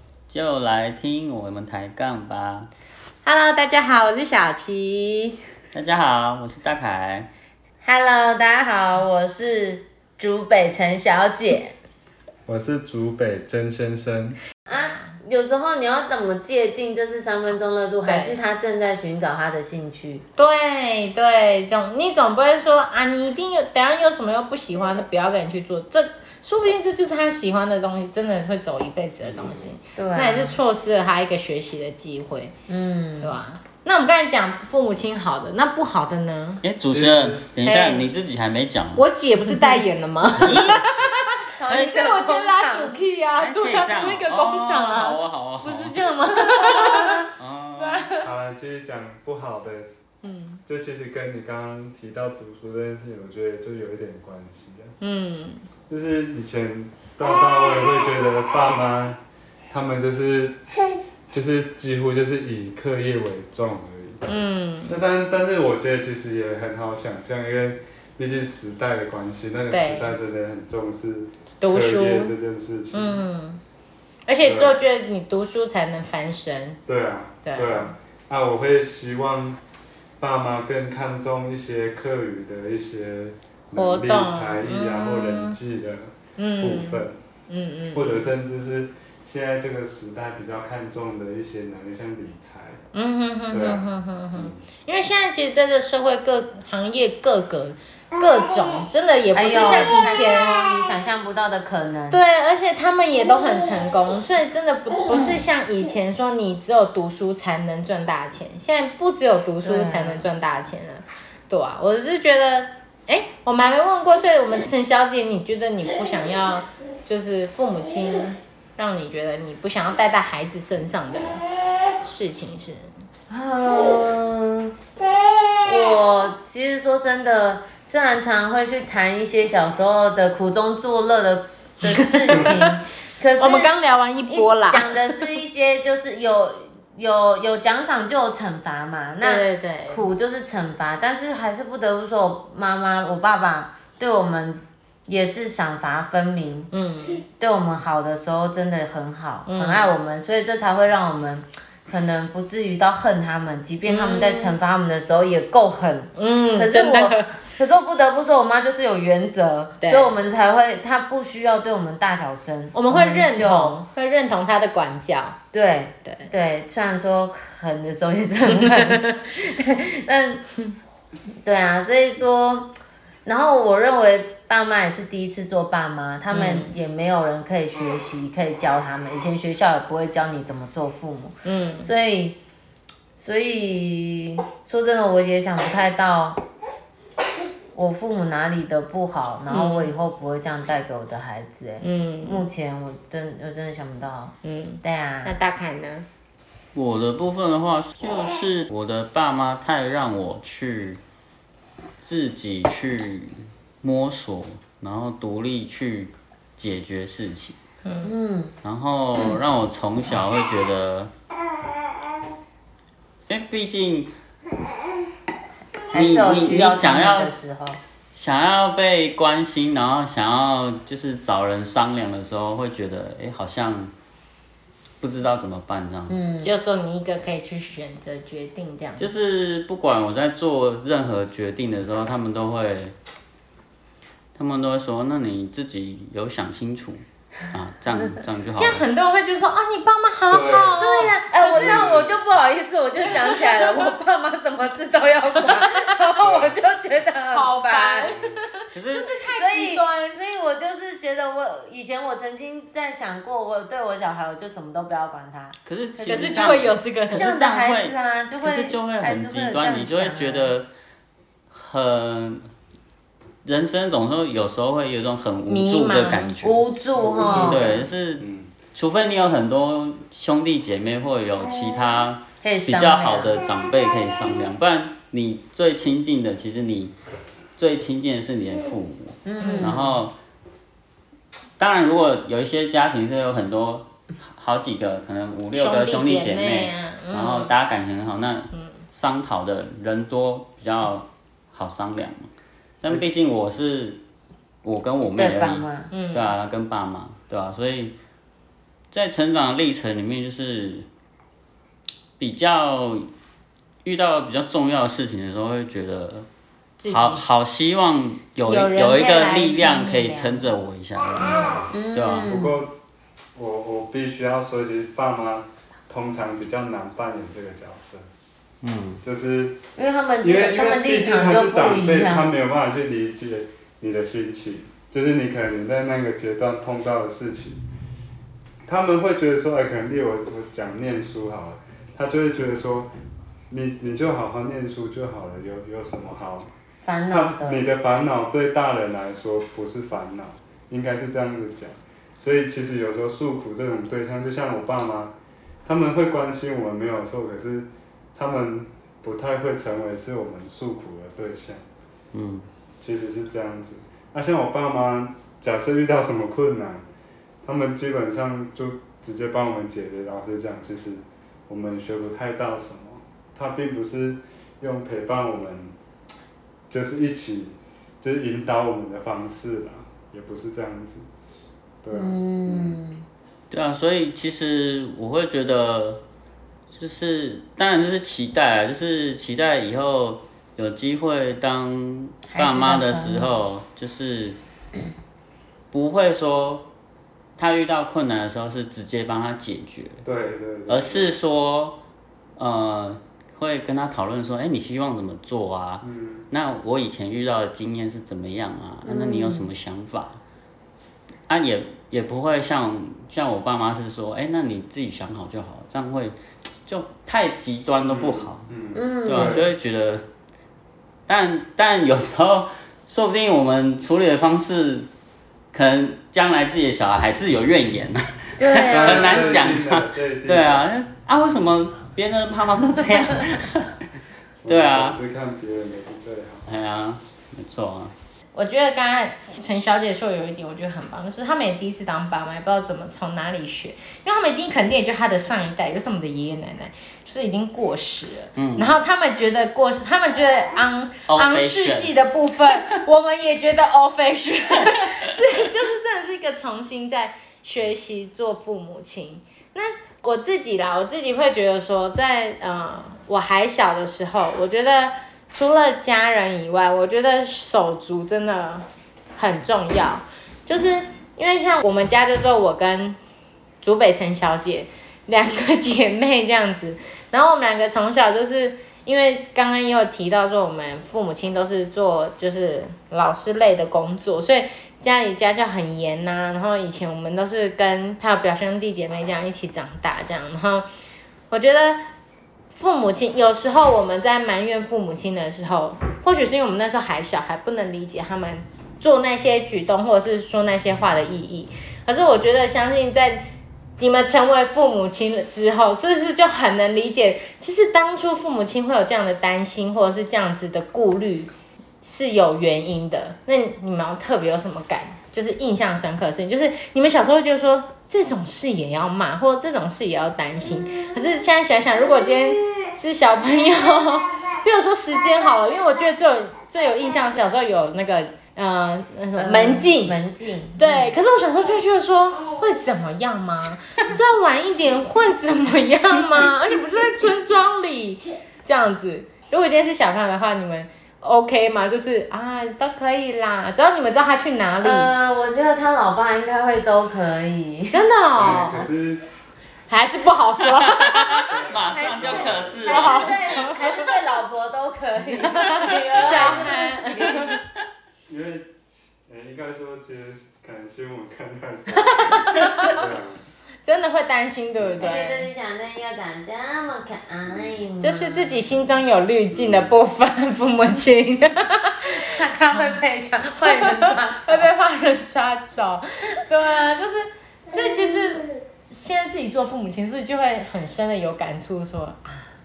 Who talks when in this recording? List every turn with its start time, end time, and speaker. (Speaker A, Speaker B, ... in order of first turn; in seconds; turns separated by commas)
Speaker A: 0.3-2.7, Speaker B: 3.2-5.4, Speaker A: 5.7-7.3, Speaker C: 7.8-11.7, Speaker D: 12.4-14.4, Speaker C: 14.7-20.2, Speaker B: 14.8-15.1, Speaker B: 18.0-18.4, Speaker B: 20.4-32.5, Speaker D: 29.3-29.7, Speaker C: 29.9-30.6, Speaker C: 32.7-33.4, Speaker B: 33.2-36.6, Speaker A: 36.6-39.0, Speaker D: 36.9-37.5, Speaker B: 37.6-38.1, Speaker B: 39.0-47.3, Speaker A: 40.4-40.9, Speaker C: 41.6-43.0, Speaker A: 43.4-46.0, Speaker C: 46.5-47.0, Speaker A: 47.4-48.1, Speaker B: 47.8-48.2, Speaker D: 48.2-49.9, Speaker B: 50.2-50.6, Speaker D: 50.6-54.9, Speaker B: 55.0-55.6, Speaker D: 55.9-59.2, Speaker D: 59.7-60.6, Speaker D: 61.3-64.3, Speaker B: 64.3-65.0, Speaker D: 64.9-73.2, Speaker B: 69.7-70.1, Speaker B: 71.6-72.3, Speaker B: 72.9-73.6, Speaker B: 74.3-76.8, Speaker D: 74.4-74.8, Speaker D: 76.8-79.6, Speaker B: 77.4-77.9, Speaker D: 80.2-87.2, Speaker B: 83.7-85.6, Speaker B: 86.4-88.3, Speaker D: 87.9-92.8, Speaker B: 92.9-100.7, Speaker D: 93.5-94.6, Speaker C: 99.3-102.2, Speaker B: 102.1-121.4, Speaker C: 109.6-110.3, Speaker B: 122.0-122.9, Speaker C: 123.3-124.7, Speaker C: 125.6-133.7, Speaker B: 131.8-132.6, Speaker B: 133.4-135.0, Speaker C: 134.2-146.7, Speaker B: 139.2-140.0, Speaker B: 146.7-147.2, Speaker C: 147.4-163.8, Speaker B: 149.5-149.9, Speaker B: 153.8-154.6, Speaker B: 156.2-157.4, Speaker B: 159.8-160.1, Speaker B: 162.7-165.3, Speaker C: 165.5-170.5, Speaker C: 171.4-172.7, Speaker C: 173.2-182.4, Speaker B: 176.3-176.7, Speaker B: 181.4-181.9, Speaker C: 183.2-186.4, Speaker C: 187.7-195.3, Speaker B: 189.5-189.9, Speaker B: 191.8-192.4, Speaker B: 194.4-196.1, Speaker A: 196.7-201.0, Speaker A: 202.0-207.6, Speaker B: 207.8-208.1, Speaker C: 208.0-208.5, Speaker A: 208.6-211.1, Speaker A: 213.3-214.1, Speaker C: 215.9-217.8, Speaker A: 215.9-217.3, Speaker A: 218.1-223.9, Speaker A: 225.0-226.2, Speaker C: 226.1-226.5, Speaker B: 226.4-229.1, Speaker A: 229.0-232.9, Speaker A: 234.3-238.8, Speaker B: 238.6-242.0, Speaker D: 240.3-242.1, Speaker C: 240.7-248.1, Speaker B: 243.0-243.9, Speaker B: 245.4-245.9, Speaker D: 246.2-246.6, Speaker B: 247.3-250.2, Speaker D: 248.0-248.4, Speaker A: 248.7-249.1, Speaker C: 249.3-256.6, Speaker A: 255.6-260.7, Speaker B: 256.0-257.3, Speaker C: 257.1-260.6, Speaker A: 261.5-262.4, Speaker A: 263.4-266.6, Speaker B: 265.5-266.3, Speaker C: 266.4-267.9, Speaker D: 267.0-268.6, Speaker A: 267.2-268.2, Speaker A: 268.7-276.9, Speaker C: 272.4-273.4, Speaker A: 277.6-280.1, Speaker C: 279.2-279.9, Speaker B: 279.4-279.9, Speaker A: 281.6-292.3, Speaker B: 285.5-287.5, Speaker B: 288.5-288.8, Speaker A: 292.8-294.0, Speaker A: 294.6-297.9, Speaker C: 295.1-295.9, Speaker B: 295.9-296.4, Speaker A: 298.9-300.9, Speaker A: 302.2-303.1, Speaker A: 303.8-306.3, Speaker B: 306.8-307.2, Speaker A: 306.9-312.3, Speaker B: 308.4-310.2, Speaker C: 311.7-312.6, Speaker D: 312.3-312.7, Speaker D: 313.4-318.0, Speaker A: 318.6-319.0, Speaker D: 319.0-319.6, Speaker C: 319.8-322.2, Speaker D: 320.2-327.6, Speaker D: 328.6-332.9, Speaker D: 333.5-336.5, Speaker C: 336.8-337.6, Speaker D: 337.1-345.1, Speaker D: 345.6-351.6, Speaker A: 352.1-352.4, Speaker D: 352.8-356.9, Speaker D: 357.4-365.7, Speaker D: 366.7-371.1, Speaker D: 371.8-372.8, Speaker C: 371.9-373.0, Speaker A: 373.5-376.0, Speaker A: 376.7-384.4, Speaker C: 382.3-383.3, Speaker A: 385.7-386.7, Speaker A: 387.4-390.0, Speaker D: 390.0-391.2, Speaker A: 390.7-391.8, Speaker A: 392.4-400.2, Speaker D: 395.8-396.3, Speaker C: 398.8-399.5, Speaker A: 401.3-408.5, Speaker D: 407.9-409.5, Speaker C: 408.7-409.4, Speaker A: 409.0-410.0, Speaker A: 411.1-414.9, Speaker A: 415.5-423.7, Speaker C: 418.4-419.5, Speaker D: 418.7-420.6, Speaker D: 424.4-426.4, Speaker A: 424.5-425.0, Speaker A: 426.5-427.9, Speaker B: 428.3-463.0, Speaker A: 438.4-438.7, Speaker A: 441.1-441.9, Speaker B: 463.6-480.7, Speaker B: 481.3-481.8, Speaker B: 482.5-520.0, Speaker C: 519.2-521.0, Speaker B: 520.6-534.9, Speaker C: 534.6-537.8, Speaker B: 537.7-538.7, Speaker D: 538.2-539.1, Speaker B: 539.7-541.2, Speaker A: 540.5-543.7, Speaker D: 541.2-542.8, Speaker C: 541.7-547.3, Speaker B: 542.6-543.6, Speaker B: 545.2-547.3, Speaker D: 548.1-553.2, Speaker B: 552.3-552.7, Speaker B: 553.6-555.3, Speaker D: 554.6-554.9, Speaker C: 554.8-558.6, Speaker D: 557.3-557.6, Speaker B: 557.8-561.9, Speaker D: 559.3-559.7, Speaker C: 561.9-564.5, Speaker B: 563.4-572.3